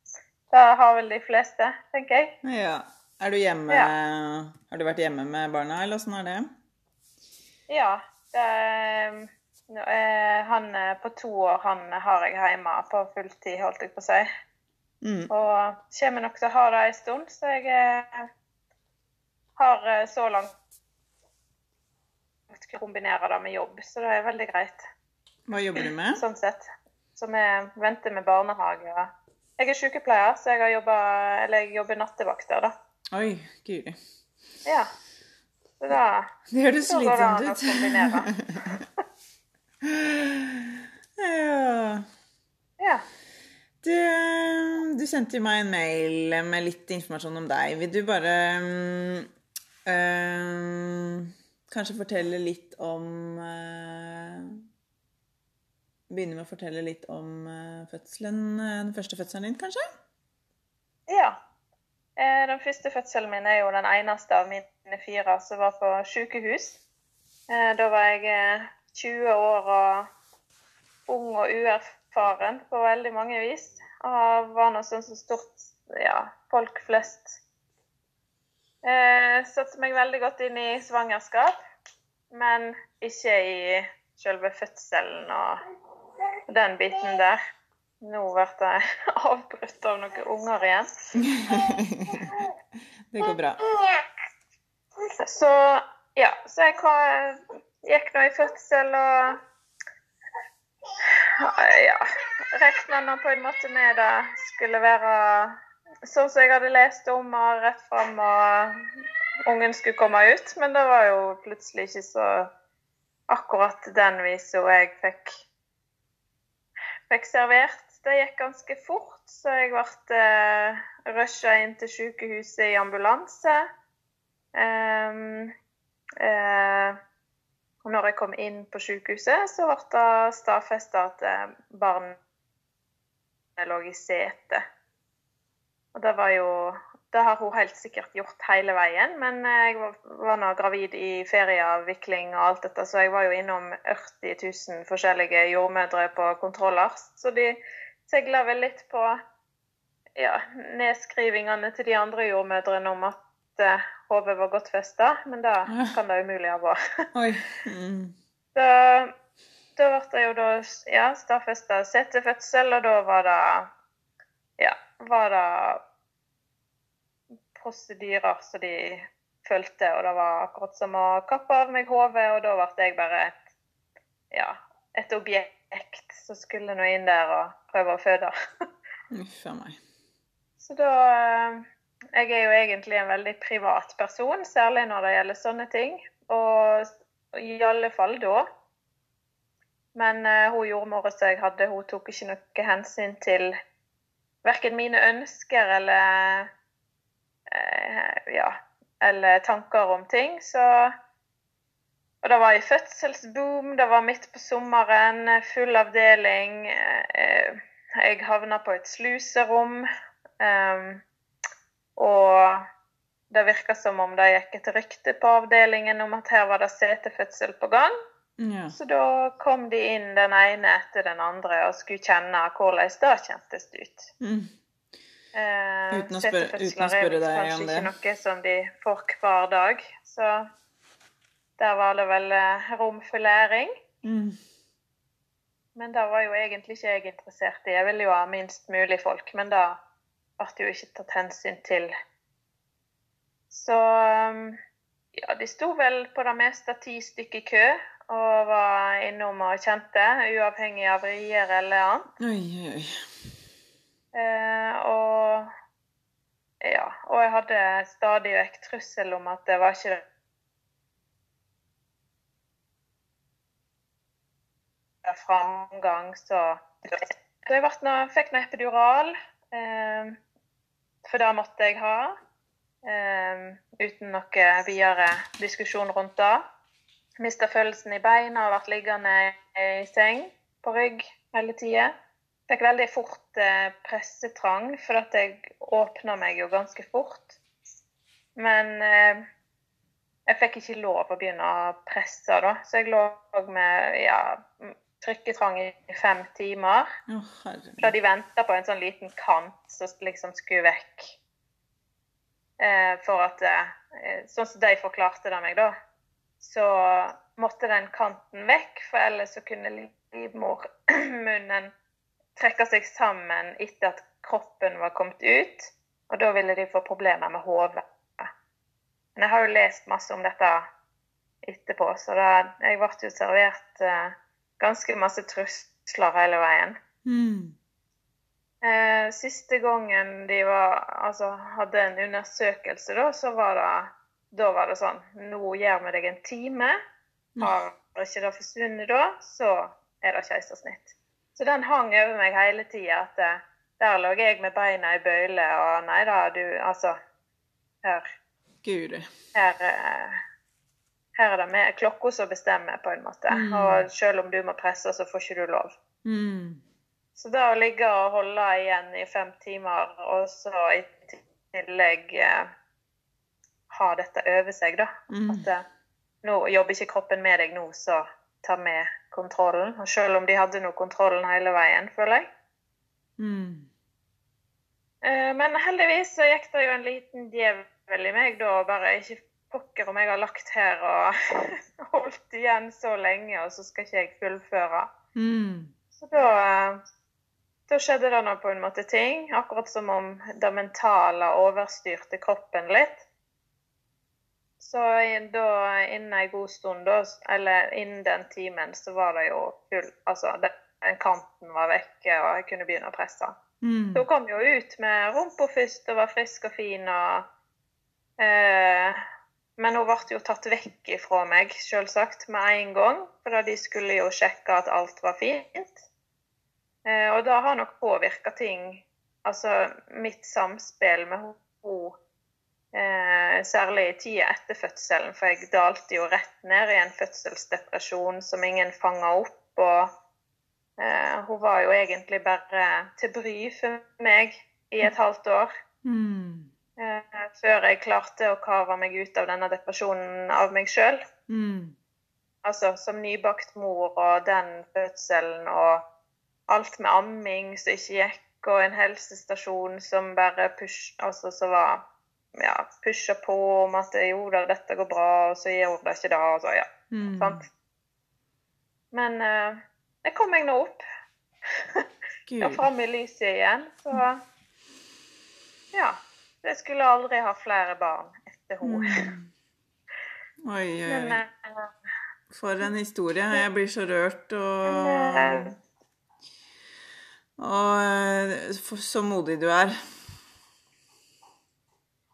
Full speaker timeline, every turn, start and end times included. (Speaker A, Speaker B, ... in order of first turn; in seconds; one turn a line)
Speaker A: 0.5-2.4
Speaker B: 2.4-6.5
Speaker A: 7.7-14.3
Speaker B: 15.0-15.3
Speaker A: 15.3-18.3
Speaker A: 19.6-20.5
Speaker A: 22.5-24.9
Speaker B: 25.5-26.2
Speaker A: 26.1-32.7
Speaker B: 33.1-34.0
Speaker A: 34.6-34.9
Speaker A: 35.8-36.3
Speaker B: 36.5-38.8
Speaker A: 36.9-38.3
Speaker B: 39.8-42.1
Speaker A: 42.8-43.0
Speaker B: 43.8-49.3
Speaker B: 49.9-54.6
Speaker B: 56.1-59.9
Speaker A: 61.1-61.4
Speaker A: 62.2-66.8
Speaker A: 67.5-70.1
Speaker A: 71.1-77.4
Speaker A: 78.8-81.6
Speaker A: 82.3-85.6
Speaker A: 86.5-87.4
Speaker A: 88.0-91.2
Speaker B: 91.2-92.3
Speaker B: 93.1-93.6
Speaker A: 93.3-94.0
Speaker A: 95.1-99.4
Speaker A: 101.0-108.8
Speaker A: 109.5-112.5
Speaker A: 113.3-115.4
Speaker A: 117.1-123.7
Speaker A: 124.5-125.5
Speaker A: 126.2-127.0
Speaker A: 127.8-132.2
Speaker A: 133.6-134.6
Speaker A: 135.9-149.2
Speaker A: 150.2-156.8
Speaker B: 155.7-155.9
Speaker B: 157.1-158.1
Speaker A: 158.6-159.1
Speaker A: 159.8-163.7
Speaker A: 164.6-165.8
Speaker A: 167.5-173.4
Speaker A: 174.3-178.3
Speaker B: 179.1-179.8
Speaker A: 180.6-188.5
Speaker A: 189.9-193.5
Speaker A: 194.4-196.5
Speaker A: 197.5-200.9
Speaker A: 202.2-209.9
Speaker A: 210.4-211.0
Speaker A: 212.0-212.7
Speaker A: 213.3-217.9
Speaker B: 218.4-218.8
Speaker A: 218.7-224.1
Speaker B: 224.2-224.5
Speaker A: 225.3-230.5
Speaker B: 225.9-227.9
Speaker A: 231.6-233.7
Speaker B: 234.0-234.4
Speaker A: 235.8-239.8
Speaker A: 240.4-241.9
Speaker A: 243.5-244.6
Speaker A: 245.2-252.1
Speaker B: 252.2-253.0
Speaker A: 254.1-255.5
Speaker A: 256.6-260.0
Speaker A: 265.0-270.2
Speaker A: 271.1-272.1
Speaker A: 272.9-276.4
Speaker A: 277.2-281.9
Speaker A: 282.5-287.4
Speaker A: 288.4-289.3
Speaker A: 290.3-296.9
Speaker B: 297.1-297.9
Speaker A: 297.8-301.2
Speaker A: 302.6-305.7
Speaker A: 306.4-311.7
Speaker A: 312.4-318.3
Speaker A: 319.2-320.7
Speaker A: 321.4-326.8
Speaker B: 327.1-327.6
Speaker A: 328.6-336.8
Speaker A: 337.4-347.0
Speaker A: 347.8-348.1
Speaker B: 348.6-349.1
Speaker A: 349.4-350.2
Speaker A: 351.1-355.7
Speaker B: 353.3-353.9
Speaker B: 356.1-356.6
Speaker A: 357.2-362.5
Speaker A: 363.7-365.6
Speaker B: 365.1-365.4
Speaker A: 366.2-372.3
Speaker B: 373.2-373.7
Speaker A: 375.0-384.9
Speaker B: 385.2-385.7
Speaker A: 386.0-386.8
Speaker A: 387.7-393.0
Speaker A: 394.6-403.4
Speaker B: 403.6-404.1
Speaker A: 403.9-407.2
Speaker A: 408.2-409.0
Speaker A: 409.6-415.9
Speaker A: 416.9-422.0
Speaker A: 422.7-429.9
Speaker A: 430.8-435.5
Speaker B: 435.9-436.5
Speaker A: 436.8-441.0
Speaker B: 441.3-441.8
Speaker A: 442.4-445.8
Speaker A: 446.5-451.8
Speaker A: 452.4-457.5
Speaker B: 456.9-457.4
Speaker A: 458.9-460.8
Speaker A: 461.6-461.9
Speaker B: 462.3-462.7
Speaker A: 462.4-464.2
Speaker A: 465.7-469.0
Speaker B: 468.6-469.3
Speaker B: 470.4-471.2
Speaker A: 470.9-471.7
Speaker B: 472.3-475.6
Speaker A: 474.6-475.5
Speaker B: 477.4-479.8